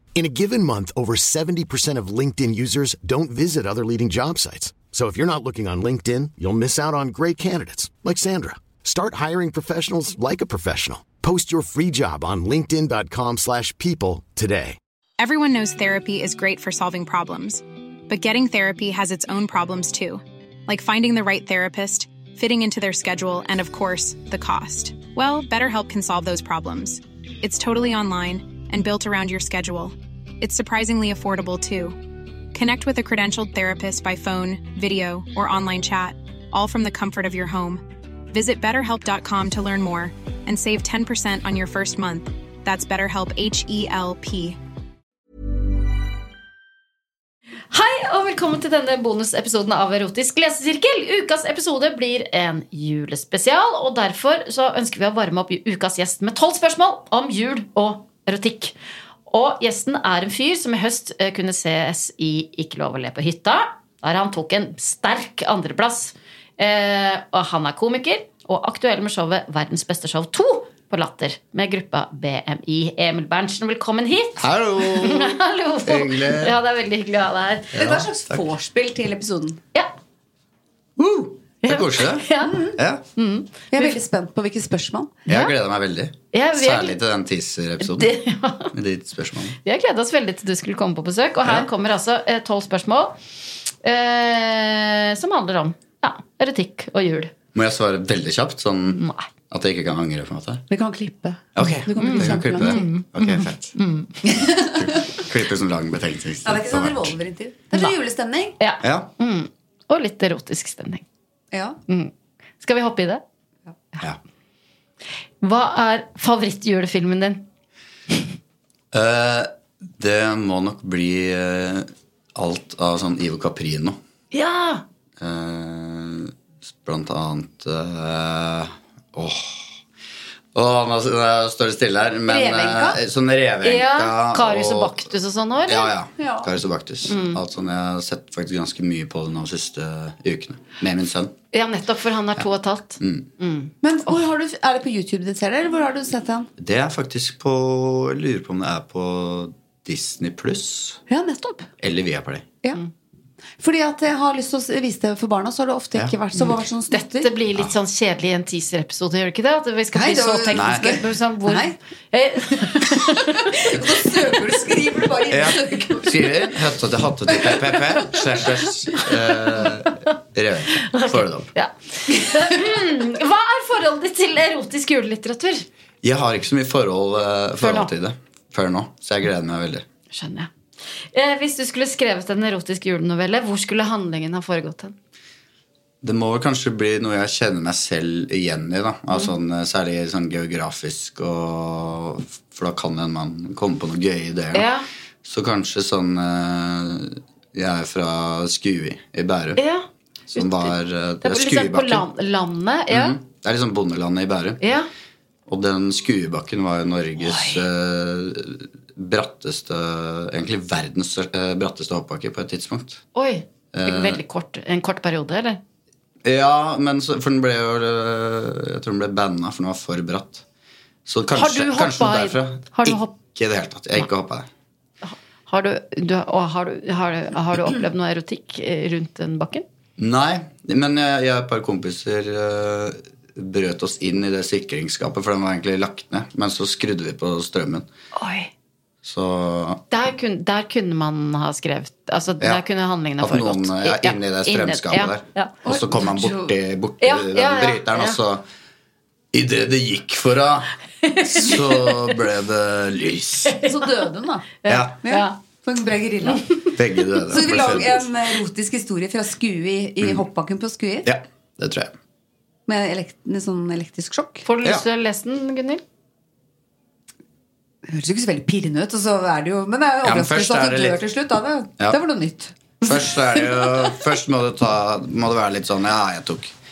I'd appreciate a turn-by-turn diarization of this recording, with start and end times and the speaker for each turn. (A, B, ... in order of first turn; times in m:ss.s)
0:00.2-0:14.8 A
0:15.2-0:32.0 B
0:32.5-0:44.6 B
0:47.7-0:58.8 C
0:59.3-1:17.7 C
1:14.4-1:16.5 D
1:17.7-1:18.5 D
1:17.8-1:19.6 E
1:21.0-1:23.0 D
1:21.6-1:22.6 C
1:22.4-1:22.8 E
1:23.2-1:24.0 C
1:23.7-1:25.2 E
1:25.3-1:28.2 D
1:25.3-1:25.5 C
1:26.3-1:27.0 C
1:27.8-1:28.7 C
1:28.7-1:29.6 D
1:29.6-1:33.2 C
1:33.8-1:37.3 C
1:37.5-1:40.6 D
1:39.0-1:39.3 C
1:40.7-1:42.9 E
1:41.6-1:43.7 D
1:41.6-1:44.1 C
1:44.3-1:44.7 E
1:44.6-1:47.1 D
1:46.4-1:48.6 E
1:48.6-1:51.0 C
1:48.8-1:49.1 D
1:51.5-1:51.8 E
1:51.9-1:53.2 C
1:55.4-1:57.4 C
1:58.9-2:04.0 D
2:04.3-2:04.8 C
2:05.2-2:09.6 D
2:10.6-2:15.1 D
2:12.3-2:13.0 E
2:13.6-2:15.9 C
2:15.7-2:21.3 D
2:16.2-2:16.5 E
2:17.1-2:17.4 C
2:21.5-2:23.7 C
2:23.0-2:23.3 D
2:23.8-2:26.5 E
2:26.6-2:31.0 D
2:31.1-2:31.7 E
2:31.8-2:32.5 D
2:33.6-2:37.3 E
2:36.4-2:43.4 C
2:39.9-2:41.8 E
2:40.5-2:40.9 D
2:43.6-2:46.4 E
2:45.3-2:51.5 D
2:47.4-2:47.7 E
2:50.9-2:55.7 C
2:56.0-2:59.8 D
2:57.6-2:57.9 C
3:00.1-3:00.5 C
3:01.1-3:05.0 C
3:06.0-3:14.7 D
3:14.5-3:14.9 C
3:15.2-3:19.6 D
3:19.6-3:23.2 C
3:20.3-3:22.1 D
3:22.9-3:24.6 D
3:24.6-3:24.9 C
3:25.5-3:33.0 D
3:27.2-3:27.6 C
3:33.1-3:35.6 C
3:33.7-3:34.2 D
3:36.2-3:40.4 D
3:41.1-3:44.5 D
3:41.3-3:43.2 C
3:45.0-3:49.6 C
3:50.0-3:57.9 D
3:58.2-3:58.5 C
3:59.0-3:59.8 D
3:59.9-4:05.6 C
4:03.2-4:08.4 D
4:05.6-4:06.5 E
4:07.0-4:08.2 C
4:09.3-4:10.7 D
4:11.0-4:11.8 C
4:11.2-4:13.6 D
4:13.6-4:14.5 E
4:14.6-4:15.4 C
4:14.7-4:15.0 D
4:15.0-4:16.4 E
4:16.8-4:18.0 D
4:17.3-4:21.1 E
4:20.0-4:20.3 D
4:21.0-4:21.9 D
4:22.7-4:24.4 E
4:24.4-4:25.8 C
4:27.9-4:33.0 E
4:30.0-4:31.0 D
4:32.8-4:36.5 D